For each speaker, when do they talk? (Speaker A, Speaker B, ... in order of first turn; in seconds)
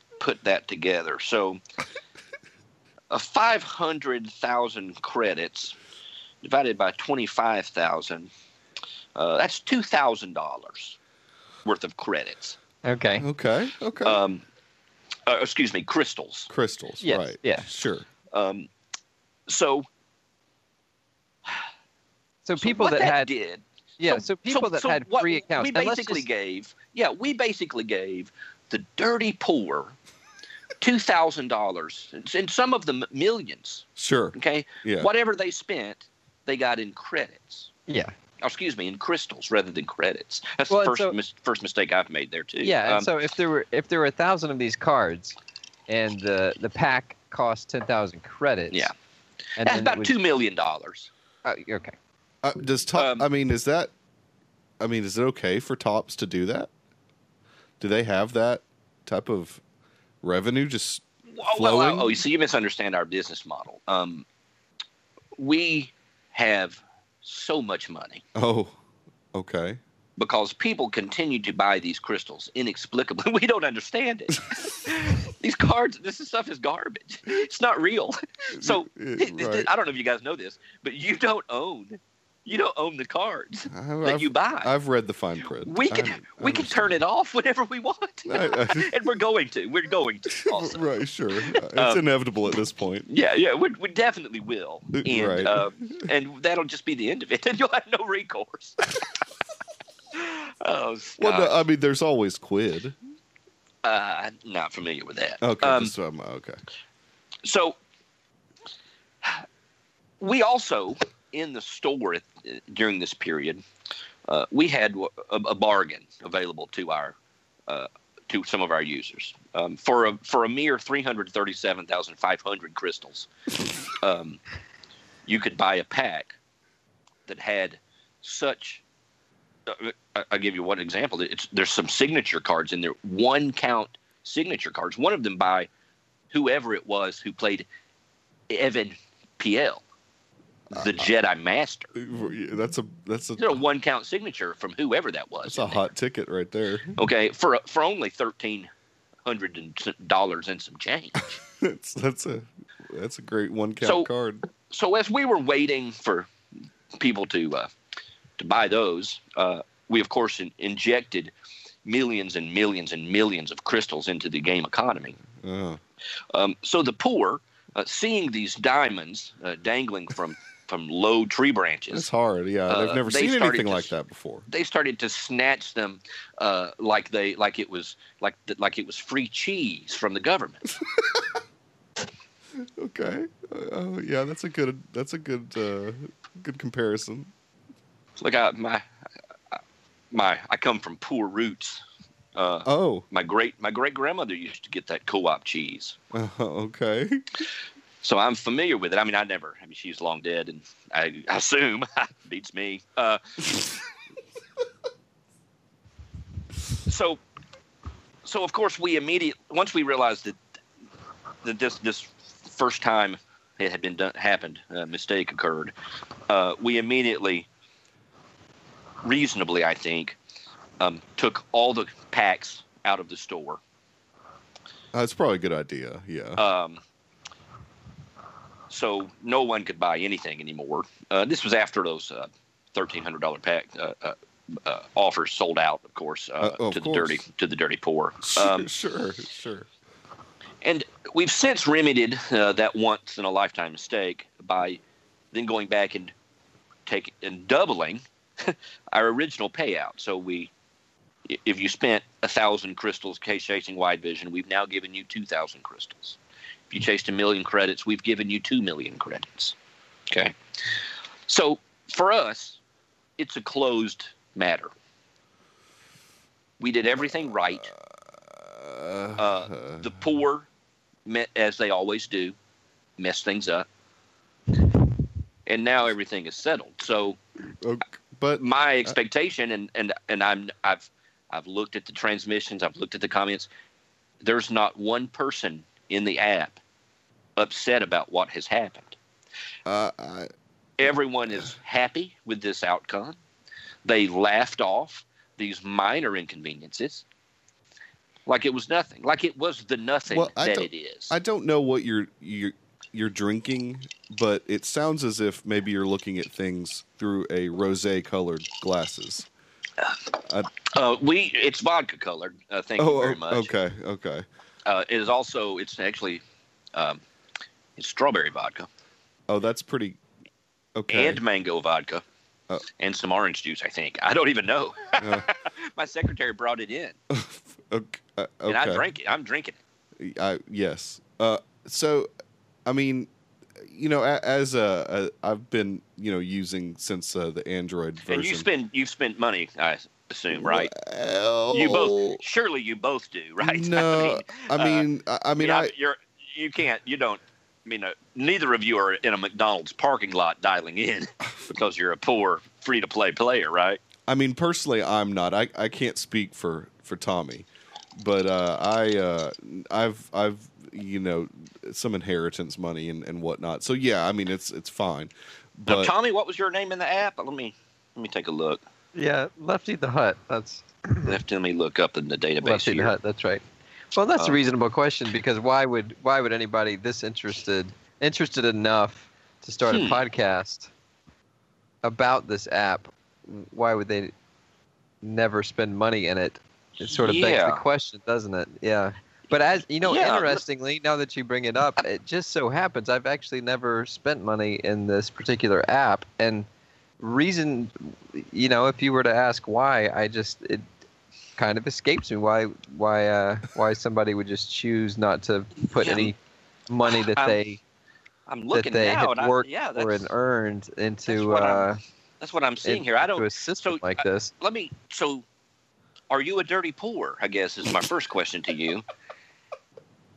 Speaker A: 0.2-1.6, 3.1-5.8, 6.4-8.3, 9.1-11.0, 11.6-12.6, 14.0-14.4, 15.3-16.5, 18.3-18.7, 19.5-19.9, 22.6-29.9, 30.8-37.7, 38.4-43.1, 49.6-51.1, 53.0-53.3, 61.3-64.2, 65.4-68.2, 70.2-84.7, 85.6-90.9, 91.5-92.0, 93.1-99.2, 100.1-101.5, 103.8-105.9, 107.4-107.8, 110.2-113.6, 114.3-117.1, 117.7-123.3, 123.9-124.4, 125.3-126.4, 127.3-128.8, 129.7-135.7, 136.3-137.7, 138.5-139.8, 140.8-141.9, 143.4-145.8, 147.0-148.7, 149.2-151.3, 153.8-154.1, 154.7-156.3, 157.0-157.7, 158.4-161.3, 161.8-165.2, 166.3-172.1, 172.7-173.9, 174.5-180.7, 188.2-188.8, 190.1-191.8, 192.3-196.0, 198.0-203.7, 206.9-207.2, 208.2-210.4, 211.4-215.7, 216.3-217.5, 219.0-220.2, 220.8-223.6, 226.4-226.8, 228.7-238.7, 240.6-244.8, 245.3-246.1, 246.9-250.5, 251.3-256.2, 256.7-259.6, 260.1-262.6, 263.2-264.7, 266.6-267.7, 269.2-270.5, 271.1-272.4, 273.0-273.7, 275.4-277.2, 278.4-283.5, 284.2-286.6, 287.4-288.9, 290.8-293.2, 293.9-297.0, 298.3-301.1, 310.6-313.5, 314.6-316.2, 316.7-317.0, 317.8-318.7, 320.9-322.0, 322.8-326.9, 328.5-329.6, 338.1-340.7, 341.5-353.8, 365.7-368.6, 371.1-372.9, 379.7-380.0, 386.9-387.6, 389.8-390.4, 405.8-406.1, 406.9-407.4, 408.3-410.1, 411.1-411.7, 412.2-415.2, 416.1-418.9
Speaker B: 12.8-13.3, 17.0-17.7, 22.4-23.3, 24.0-26.3, 40.7-41.1, 42.6-45.4, 45.9-48.9, 49.6-50.1, 51.4-51.9, 368.9-371.1, 372.4-373.4, 373.9-380.7, 381.8-384.1, 385.0-396.5, 397.0-400.6, 401.4-406.1, 406.7-407.6, 408.5-411.8, 412.6-414.3
Speaker C: 13.2-14.2, 16.5-18.1, 34.0-35.1, 52.4-53.9, 54.8-56.7, 57.8-59.6, 60.2-62.2, 68.3-68.8, 69.3-69.8, 78.5-79.7, 83.7-87.0, 88.3-88.9, 90.4-93.1, 94.9-96.1, 101.2-103.0, 105.4-106.6, 140.7-141.1, 141.9-143.6, 145.4-147.0, 151.6-154.4, 165.3-165.8, 171.9-174.5, 182.6-187.3, 192.6-193.1, 196.1-197.2, 224.9-226.4, 236.4-237.2, 238.2-239.7, 267.5-269.9, 277.6-278.9, 289.6-290.3, 300.1-309.3, 312.8-314.3, 319.3-320.0, 320.8-321.2, 325.0-325.3, 327.1-328.9, 330.0-332.1, 332.6-338.5, 340.3-342.2, 343.4-345.7, 354.1-365.9